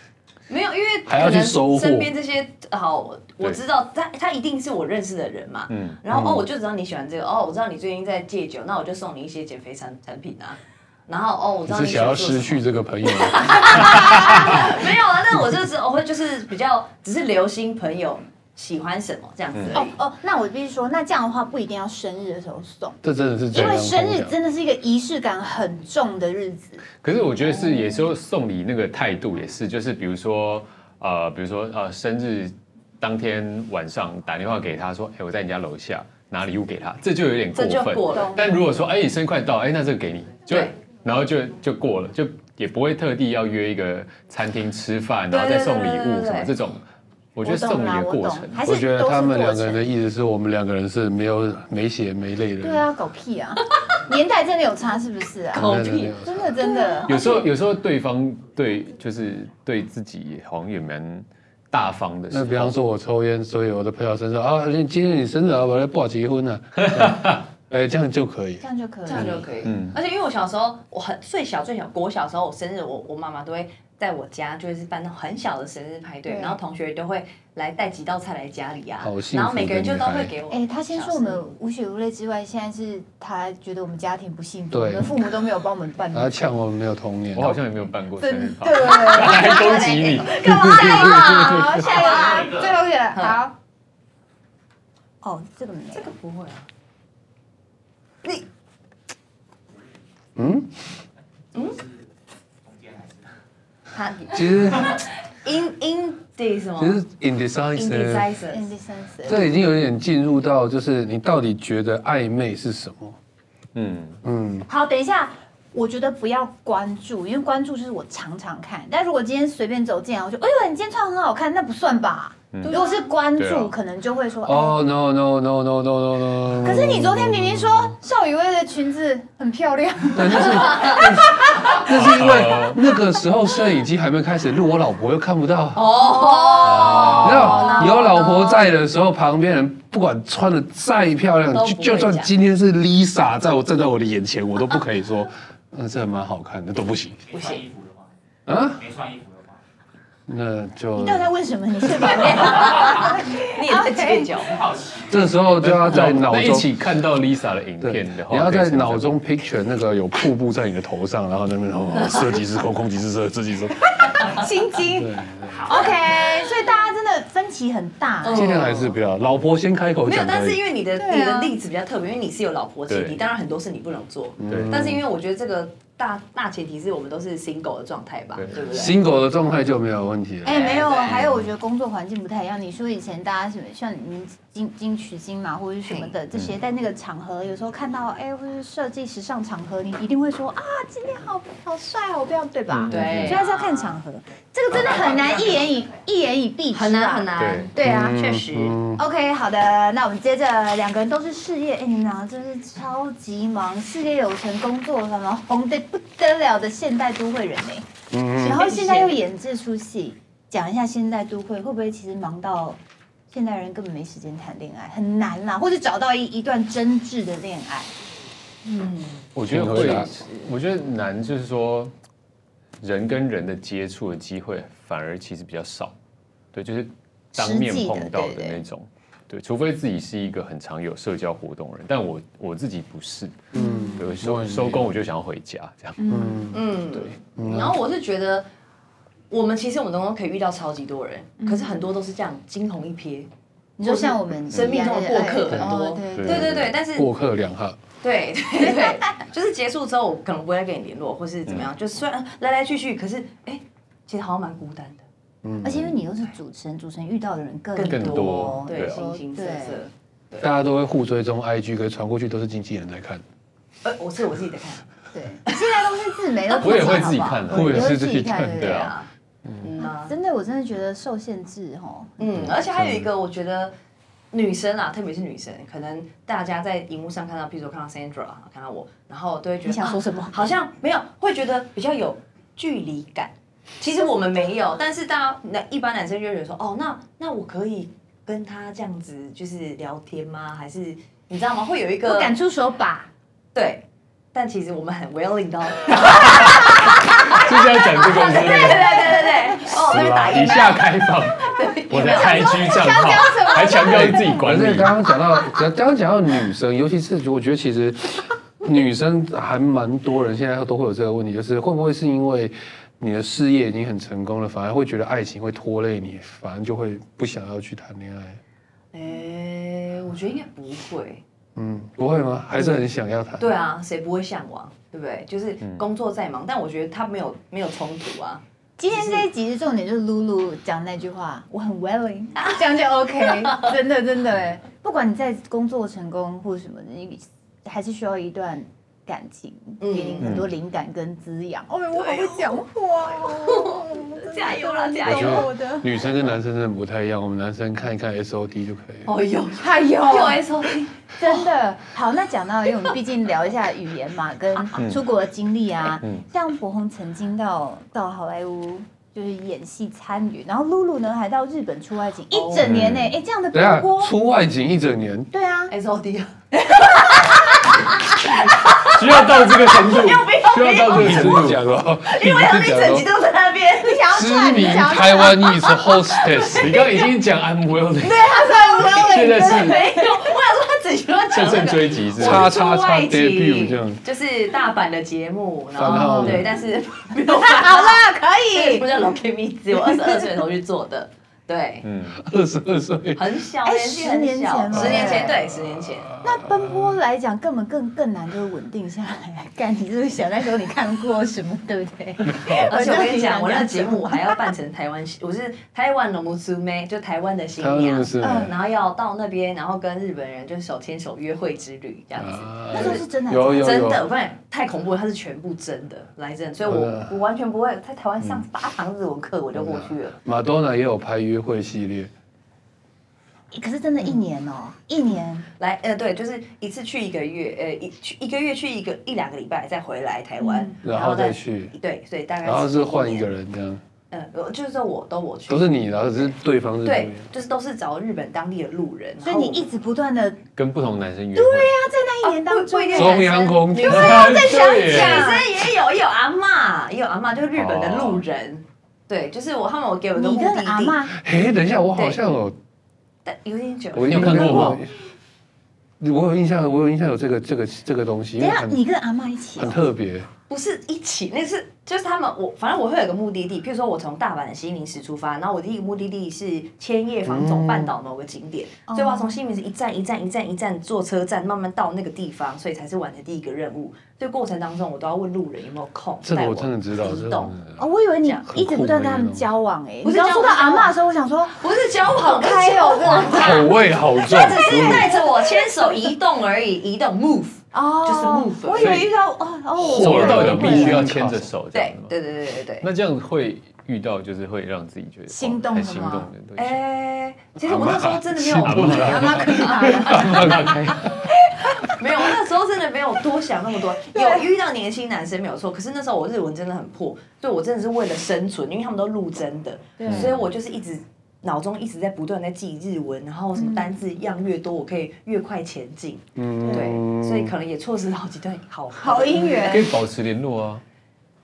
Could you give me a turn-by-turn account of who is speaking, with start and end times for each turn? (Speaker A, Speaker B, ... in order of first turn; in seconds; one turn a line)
Speaker A: 0.5-19.9
Speaker B: 1.1-2.1
Speaker C: 5.7-6.0
Speaker B: 6.1-6.5
Speaker B: 11.7-14.8
Speaker C: 19.5-19.8
Speaker D: 19.7-23.0
Speaker B: 23.0-24.3
Speaker D: 23.5-26.8
Speaker C: 27.0-46.8
Speaker A: 37.5-38.4
Speaker D: 38.1-38.5
Speaker A: 40.5-40.7
Speaker A: 45.3-46.5
Speaker C: 47.4-48.6
Speaker D: 47.4-49.8
Speaker B: 48.6-52.8
Speaker D: 52.6-57.2
Speaker B: 55.5-56.7
Speaker A: 55.5-57.4
Speaker C: 57.1-62.7
Speaker B: 62.3-68.6
Speaker C: 66.8-67.4
Speaker D: 68.6-69.5
Speaker A: 69.0-81.5
Speaker C: 69.1-70.0
Speaker D: 76.2-76.6
Speaker B: 79.0-80.3
Speaker D: 80.5-86.5
Speaker B: 84.7-85.2
Speaker B: 86.1-87.6
Speaker C: 87.3-91.8
Speaker D: 88.2-93.5
Speaker A: 89.0-92.5
Speaker E: 92.1-92.7
Speaker D: 95.2-96.1
Speaker A: 95.9-96.7
Speaker B: 100.3-100.7
Speaker A: 101.5-101.8
Speaker E: 102.7-103.2
Speaker A: 103.9-107.0
Speaker B: 104.3-105.0
Speaker B: 106.8-108.3
Speaker A: 107.7-108.7
Speaker D: 108.5-109.5
Speaker B: 109.2-113.2
Speaker C: 113.7-114.2
Speaker B: 114.2-114.7
Speaker D: 114.7-124.8
Speaker C: 122.5-122.8
Speaker A: 122.6-123.0
Speaker C: 123.3-123.7
Speaker B: 124.4-127.9
Speaker D: 126.6-131.8
Speaker B: 130.1-136.0
Speaker A: 130.5-131.0
Speaker C: 131.9-132.8
Speaker A: 135.7-138.7
Speaker D: 136.2-138.1
Speaker C: 136.6-137.4
Speaker B: 136.9-147.2
Speaker A: 141.5-142.3
Speaker E: 147.3-148.1
Speaker A: 147.3-147.6
Speaker B: 148.5-148.8
Speaker E: 148.8-149.6
Speaker B: 150.3-151.3
Speaker D: 150.9-154.3
Speaker A: 152.1-154.6
Speaker E: 152.7-153.0
Speaker E: 154.5-155.2
Speaker B: 155.1-156.7
Speaker C: 155.6-159.2
Speaker B: 157.8-164.3
Speaker A: 162.0-162.3
Speaker D: 164.1-168.6
Speaker B: 164.9-165.7
Speaker E: 165.5-165.9
Speaker A: 168.2-169.0
Speaker B: 168.3-170.6
Speaker A: 170.0-179.0
Speaker D: 170.9-171.5
Speaker C: 172.9-173.2
Speaker B: 174.4-175.0
Speaker C: 174.5-174.9
Speaker C: 178.3-178.6
Speaker B: 178.7-180.8
Speaker D: 180.4-198.2
Speaker A: 180.5-181.2
Speaker C: 181.1-181.4
Speaker A: 185.8-186.1
Speaker A: 192.9-194.0
Speaker C: 192.9-193.4
Speaker E: 194.7-195.7
Speaker A: 194.8-195.1
Speaker A: 196.7-198.8
Speaker C: 197.4-197.7
Speaker B: 197.8-199.0
Speaker D: 198.9-212.8
Speaker B: 208.1-208.7
Speaker A: 208.5-209.2
Speaker D: 213.3-217.9
Speaker A: 218.6-219.3
Speaker C: 219.3-221.9
Speaker B: 219.4-220.2
Speaker C: 222.8-225.9
Speaker C: 226.5-236.0
Speaker D: 227.3-228.6
Speaker B: 233.5-234.9
Speaker D: 233.5-234.1
Speaker D: 236.0-236.5
Speaker B: 236.1-236.8
Speaker A: 236.5-238.5
Speaker B: 237.3-237.8
Speaker A: 239.3-243.3
Speaker D: 241.4-241.7
Speaker D: 243.8-246.5
Speaker A: 243.8-247.1
Speaker C: 246.1-246.8
Speaker B: 246.9-247.8
Speaker A: 248.0-255.0
Speaker D: 248.6-248.9
Speaker B: 255.4-255.9
Speaker D: 255.6-259.8
Speaker A: 257.7-260.5
Speaker C: 257.9-259.0
Speaker B: 260.4-263.2
Speaker A: 263.8-264.9
Speaker D: 265.1-268.9
Speaker A: 266.5-267.2
Speaker C: 266.6-267.9
Speaker B: 267.5-268.7
Speaker C: 268.6-268.9
Speaker A: 268.6-269.1
Speaker A: 269.6-270.1
Speaker D: 269.8-272.2
Speaker A: 272.2-273.7
Speaker B: 272.8-273.0
Speaker A: 274.3-292.3
Speaker D: 279.6-280.5
Speaker D: 292.0-293.1
Speaker A: 293.5-302.9
Speaker C: 295.9-305.0
Speaker D: 298.3-299.8
Speaker D: 302.0-304.4
Speaker B: 303.8-318.4
Speaker A: 318.9-321.2
Speaker B: 321.6-323.6
Speaker A: 323.4-329.3
Speaker C: 325.6-325.9
Speaker D: 328.8-346.0
Speaker A: 333.2-333.7
Speaker A: 339.8-340.4
Speaker C: 340.2-340.5
Speaker A: 341.9-345.5
Speaker B: 345.0-349.1
Speaker A: 349.1-351.5
Speaker D: 349.6-364.1
Speaker C: 354.8-355.0
Speaker A: 362.3-362.7
Speaker C: 362.6-363.1
Speaker B: 363.5-365.3
Speaker D: 365.3-365.7
Speaker A: 365.7-374.1
Speaker C: 368.8-371.6
Speaker B: 370.9-373.1
Speaker D: 373.8-375.9
Speaker B: 374.1-376.8
Speaker A: 375.9-377.1
Speaker C: 376.5-378.3
Speaker D: 378.0-380.2
Speaker A: 378.0-391.9
Speaker C: 378.9-379.8
Speaker C: 381.3-382.5
Speaker B: 382.2-384.0
Speaker B: 385.7-386.5
Speaker D: 385.9-386.4
Speaker D: 387.2-388.9
Speaker D: 389.7-390.4
Speaker C: 391.8-392.2
Speaker B: 392.1-393.3
Speaker A: 393.1-396.1
Speaker D: 393.6-395.4
Speaker B: 394.8-396.9
Speaker D: 396.2-404.5
Speaker A: 402.5-413.0
Speaker B: 407.6-408.5
Speaker D: 408.2-408.5
Speaker B: 412.1-414.1
Speaker D: 412.7-413.9
Speaker A: 413.6-420.1
Speaker B: 416.6-417.1
Speaker B: 419.5-422.1
Speaker D: 423.5-425.5
Speaker A: 425.6-433.3
Speaker D: 430.4-430.8
Speaker B: 430.8-431.7
Speaker B: 432.4-433.8
Speaker A: 434.1-436.2
Speaker B: 435.5-437.3
Speaker A: 436.8-439.6
Speaker D: 439.2-440.4
Speaker C: 440.6-441.7
Speaker D: 441.3-445.5
Speaker A: 442.2-451.0
Speaker B: 442.9-444.3
Speaker C: 443.9-445.4
Speaker C: 447.5-448.2
Speaker D: 450.1-451.1
Speaker B: 451.1-452.6
Speaker A: 453.2-454.8
Speaker B: 453.9-454.9
Speaker C: 454.0-454.8
Speaker B: 456.0-458.8
Speaker D: 458.4-459.8
Speaker B: 459.6-460.3
Speaker A: 460.5-477.6
Speaker B: 467.2-467.9
Speaker D: 468.9-469.4
Speaker B: 476.2-477.8
Speaker D: 477.8-483.8
Speaker B: 478.5-479.4
Speaker A: 480.0-480.9
Speaker A: 481.5-489.1
Speaker B: 483.2-485.1
Speaker D: 484.5-486.0
Speaker D: 487.7-491.0
Speaker C: 488.8-489.1
Speaker B: 489.8-491.5
Speaker C: 489.9-492.2
Speaker A: 491.7-492.9
Speaker C: 492.8-496.8
Speaker D: 495.3-496.3
Speaker A: 496.6-501.1
Speaker B: 497.6-501.1
Speaker C: 498.6-501.1
Speaker D: 499.1-500.5
Speaker D: 501.2-501.6
Speaker A: 501.7-519.9
Speaker D: 504.0-504.5
Speaker D: 510.0-510.3
Speaker C: 510.1-510.4
Speaker D: 513.5-513.9
Speaker B: 516.4-517.5
Speaker D: 516.6-516.9
Speaker D: 519.0-519.9
Speaker C: 519.6-520.8